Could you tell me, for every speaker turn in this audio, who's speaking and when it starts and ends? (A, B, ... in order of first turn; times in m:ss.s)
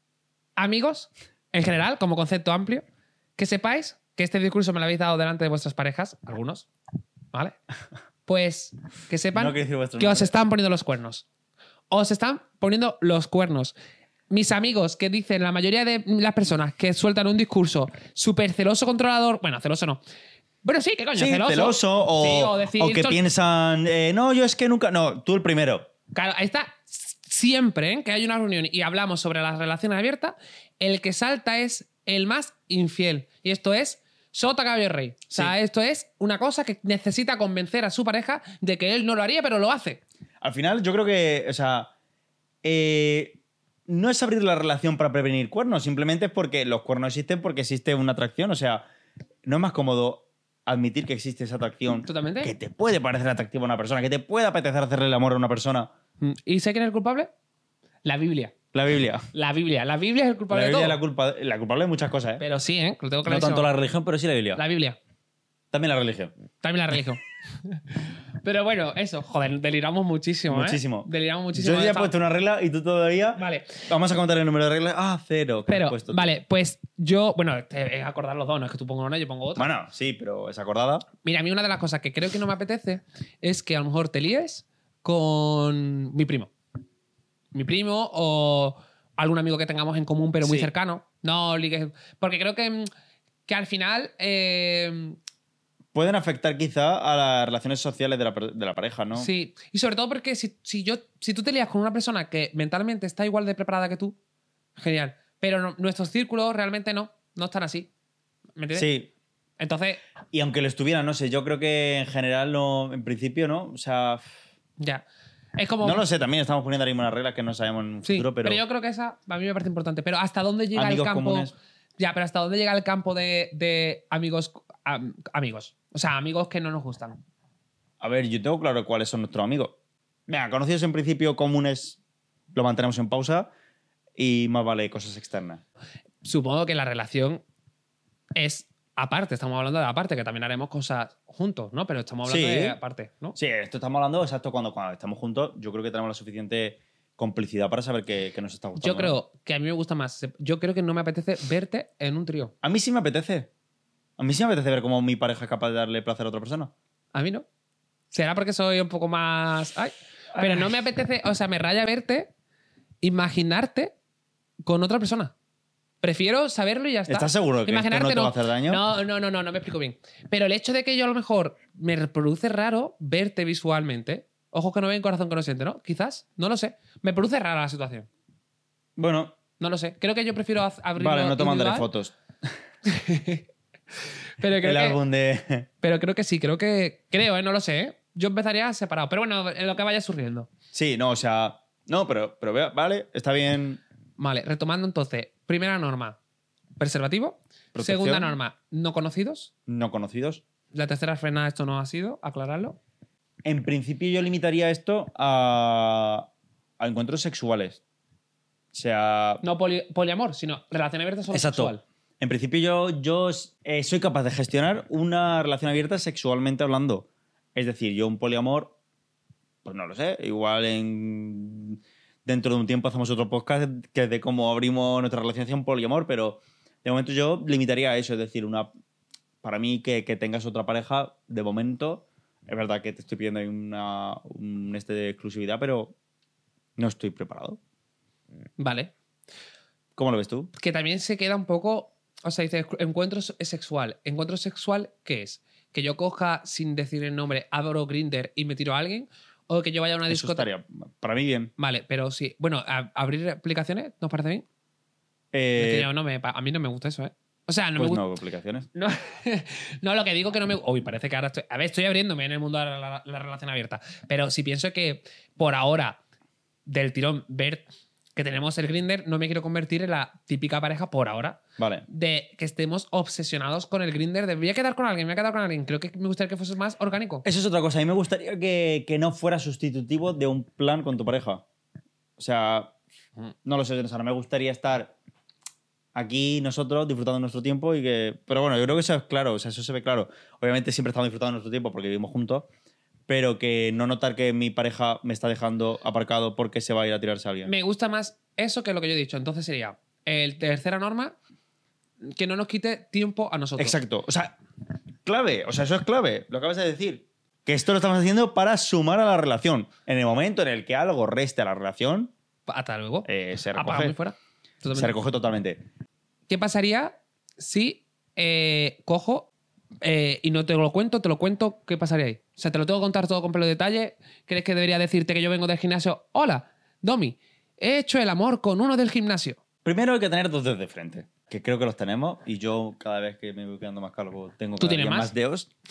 0:00.6-0:02.8 A
0:03.4-0:06.7 A
0:08.3-0:11.2 A
0:09.4-0:10.3 B
0:11.9-0:13.8 A
0:14.3-0:20.0 A
0:20.6-0:23.2 A
0:21.2-0:25.9 B
0:26.1-0:40.0 A
0:40.4-0:41.9 B
0:42.6-0:48.9 B
0:49.4-0:55.9 B
0:52.0-0:52.5 A
0:56.2-0:57.3 A
0:58.0-0:58.6 A
0:58.7-0:59.3 B
0:59.3-1:01.0 A
1:00.5-1:02.4 B
1:02.4-1:03.7 A
1:03.2-1:04.6 B
1:04.6-1:05.0 A
1:05.7-1:06.3 B
1:06.6-1:07.8 A
1:08.4-1:12.1 A
1:10.5-1:16.3 B
1:13.4-1:13.9 A
1:15.7-1:19.7 A
1:19.6-1:21.1 B
1:21.2-1:26.5 A
1:27.5-1:32.9 A
1:30.4-1:30.7 B
1:33.5-1:35.2 A
1:35.9-1:39.3 B
1:39.2-1:44.2 A
1:44.8-1:47.9 A
1:48.6-1:48.9 A
1:48.8-1:49.1 B
1:49.6-1:50.0 A
1:50.3-1:54.3 B
1:55.6-1:56.0 A
1:55.8-1:58.6 B
1:58.0-2:07.2 A
2:00.8-2:01.5 B
2:08.0-2:09.8 B
2:10.3-2:12.0 B
2:12.5-2:13.5 B
2:14.2-2:15.6 B
2:16.2-2:17.4 A
2:18.4-2:23.4 A
2:22.2-2:22.8 B
2:23.4-2:29.2 B
2:28.8-2:32.5 A
2:32.6-2:33.5 B
2:34.2-2:36.7 B
2:37.1-2:37.4 A
2:38.1-2:42.3 A
2:40.4-2:40.7 B
2:43.0-2:43.9 A
2:44.6-2:45.3 A
2:46.0-2:58.1 A
2:47.1-2:48.8 B
2:59.0-2:59.4 B
2:59.6-3:01.9 A
3:01.0-3:02.5 B
3:02.9-3:03.5 A
3:04.4-3:05.0 A
3:04.6-3:05.7 B
3:05.8-3:10.5 A
3:10.7-3:13.8 B
3:14.2-3:16.2 A
3:16.8-3:19.5 A
3:17.7-3:18.3 B
3:19.7-3:20.4 B
3:20.7-3:22.8 A
3:23.4-3:26.3 B
3:26.8-3:27.8 B
3:28.7-3:29.4 B
3:29.4-3:31.8 A
3:31.3-3:38.8 B
3:39.6-3:48.7 B
3:49.4-3:56.0 B
3:56.8-3:57.6 B
3:58.6-3:58.9 A
4:00.0-4:00.5 B
4:00.6-4:10.5 A
4:10.1-4:11.5 B
4:11.6-4:14.4 A
4:15.3-4:15.9 B
4:15.6-4:18.0 A
4:17.8-4:18.7 B
4:18.8-4:26.0 A
4:26.7-4:27.6 A
4:28.2-4:37.2 A
4:31.6-4:31.8 B
4:37.2-4:41.4 B
4:42.2-4:42.7 B
4:43.4-4:44.9 B
4:46.0-4:52.5 B
4:53.1-4:57.5 B
4:57.4-5:01.2 A
5:02.0-5:03.8 A
5:03.6-5:04.4 B
5:05.0-5:12.1 B
5:12.5-5:14.9 A
5:13.0-5:14.0 B
5:14.8-5:15.6 B
5:16.3-5:19.3 A
5:19.8-5:29.4 A
5:29.6-5:35.5 B
5:34.6-5:35.1 A